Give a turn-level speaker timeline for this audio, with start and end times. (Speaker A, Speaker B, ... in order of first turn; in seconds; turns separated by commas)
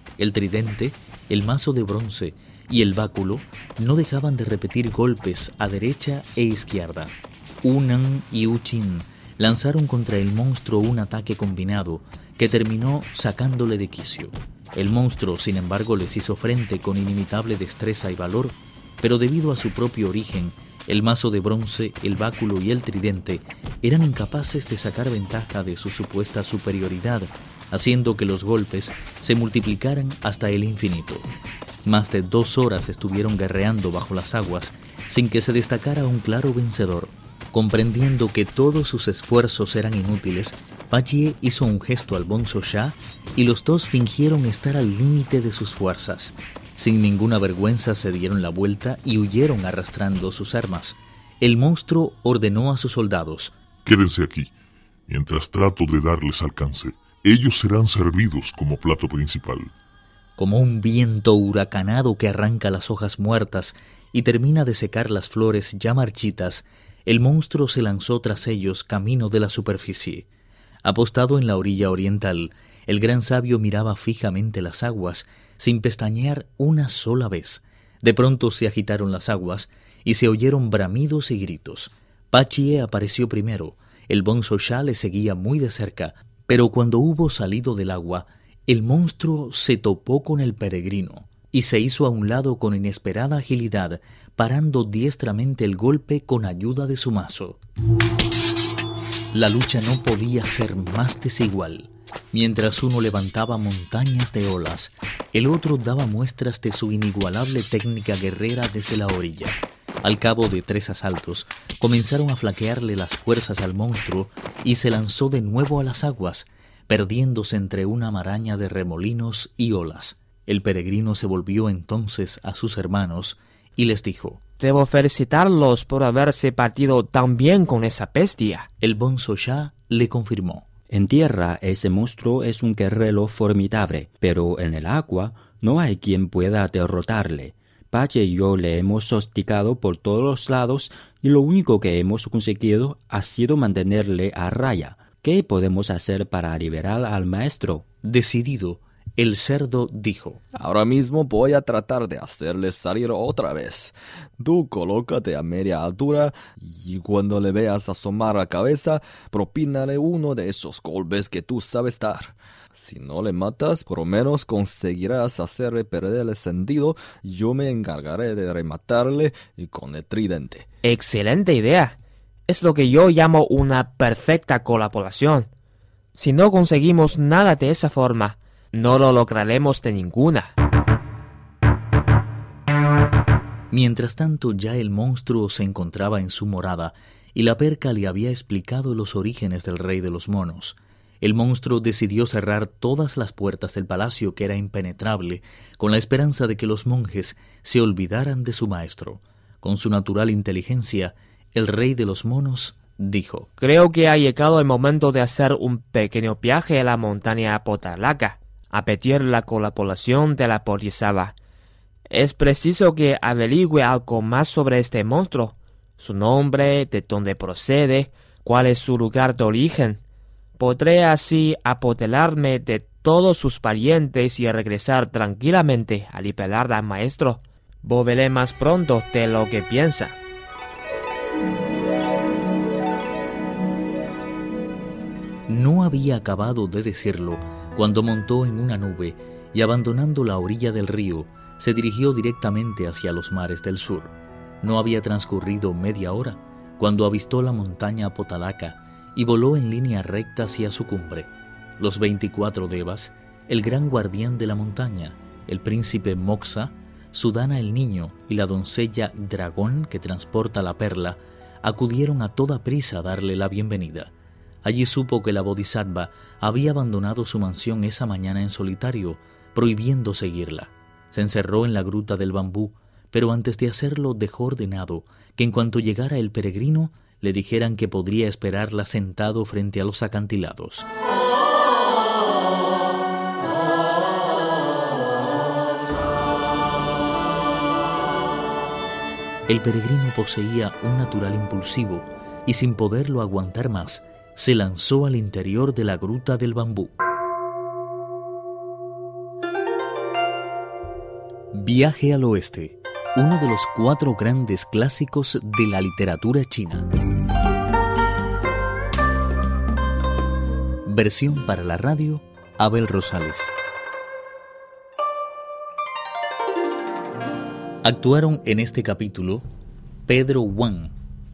Speaker A: 0.2-31.3, Speaker A: 31.8-53.5, Speaker B: 53.8-54.5, Speaker B: 55.1-59.7, Speaker A: 60.4-70.2, Speaker A: 70.8-97.6, Speaker A: 99.3-124.4, Speaker C: 124.6-128.7, Speaker A: 128.8-130.7, Speaker D: 130.9-147.8, Speaker A: 148.0-150.4, Speaker E: 150.5-170.6, Speaker C: 170.8-171.9, Speaker C: 172.5-175.5, Speaker C: 176.1-180.5, Speaker A: 183.7-203.5, Speaker C: 203.6-211.3, Speaker C: 212.1-220.0, Speaker C: 220.6-230.2, Speaker A: 235.5-264.1, Speaker A: 264.6-280.9, Speaker A: 289.5-296.9, Speaker A: 301.5-306.9, Speaker A: 310.9-313.5, Speaker A: 317.8-319.4, Speaker A: 320.1-320.9